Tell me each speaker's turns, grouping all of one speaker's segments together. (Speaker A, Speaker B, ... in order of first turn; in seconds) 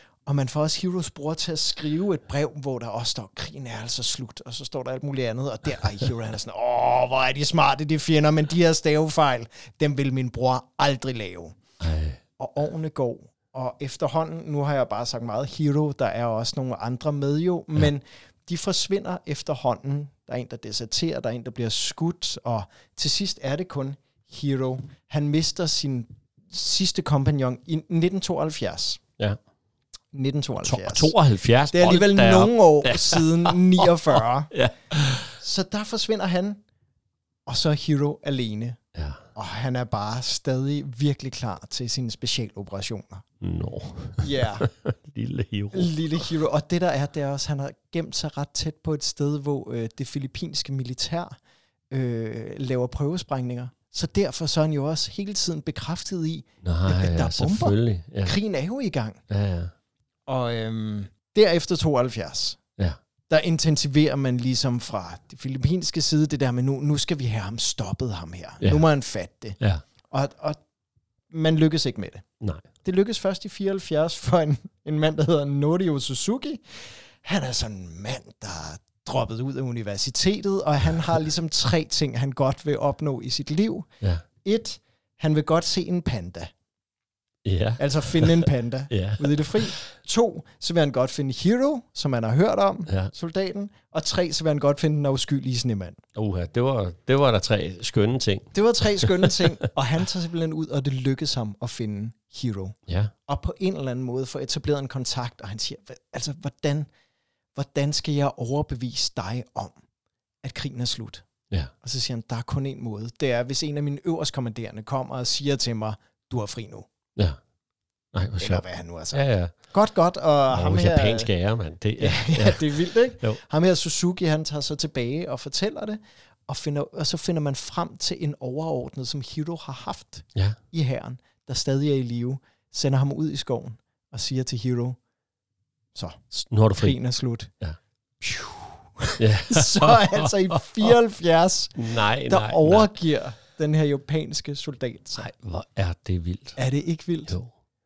Speaker A: 0.2-11.6, 12.4-29.0, 30.1-31.1, 31.7-34.5, 35.4-36.6, 37.5-38.8, 39.3-43.2, 44.2-44.7, 45.7-51.4, 51.9-59.2, 60.3-62.6, 63.3-69.6, 70.1-70.6, 71.3-72.2, 72.8-83.9, 84.4-86.5, 87.8-96.0, 98.5-106.9, 107.5-109.8, 110.4-111.2, 111.8-116.9, 118.4-121.3, 122.0-135.0, 135.9-136.2, 136.8-137.5, 138.2-145.3, 146.6-147.3
Speaker B: 11.8-12.2, 30.6-35.4, 38.9-39.2, 43.4-46.0, 56.6-58.3, 59.3-59.7, 69.6-69.8, 87.5-89.8, 92.9-93.1, 96.2-99.4, 102.9-103.1, 118.1-119.5, 120.5-123.4, 136.3-136.9, 139.2-140.9, 141.8-142.9, 145.2-146.6